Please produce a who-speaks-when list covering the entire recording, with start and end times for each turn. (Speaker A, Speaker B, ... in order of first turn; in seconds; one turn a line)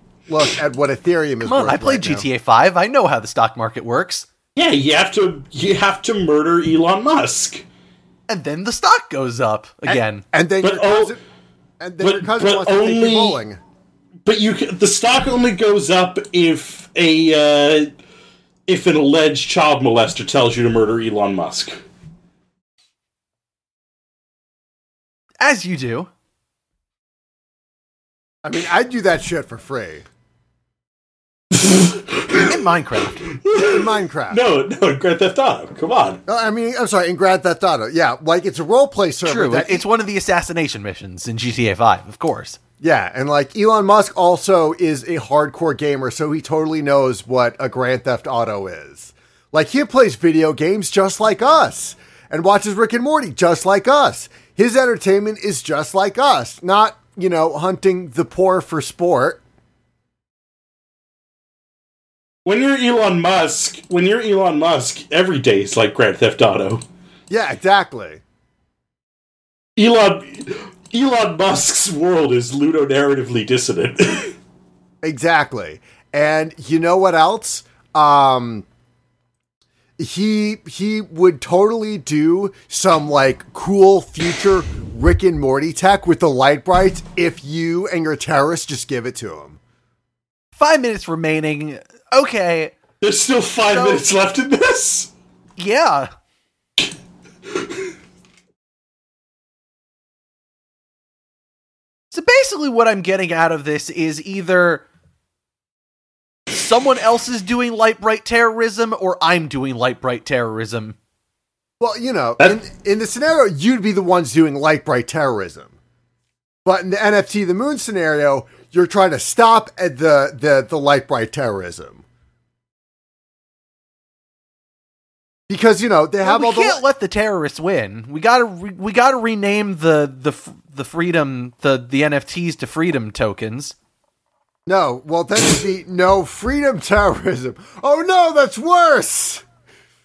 Speaker A: 0.3-2.3
Speaker B: 1.4-4.3
Speaker C: 4.5-7.6
Speaker B: 8.3-10.2
Speaker A: 9.8-11.2
Speaker C: 10.6-11.2
Speaker A: 11.8-13.6
Speaker C: 12.0-13.4
Speaker C: 14.2-17.9
Speaker C: 18.7-21.7
Speaker B: 25.4-26.1
Speaker A: 28.4-30.0
Speaker C: 31.6-32.5
Speaker B: 32.4-33.3
Speaker C: 33.3-33.8
Speaker A: 33.5-34.4
Speaker C: 34.3-36.2
Speaker A: 36.3-39.8
Speaker B: 39.2-42.6
Speaker A: 42.8-59.4
Speaker C: 62.4-66.8
Speaker A: 67.3-68.2
Speaker C: 69.8-74.3
Speaker A: 75.0-78.6
Speaker A: 80.0-89.6
Speaker B: 90.5-92.8
Speaker C: 93.0-95.1
Speaker B: 93.7-94.0
Speaker B: 95.6-96.1
Speaker B: 102.1-104.8
Speaker B: 106.5-111.0
Speaker A: 111.8-115.7
Speaker A: 116.6-122.0
Speaker A: 125.5-126.8
Speaker B: 126.2-133.7
Speaker A: 134.7-139.4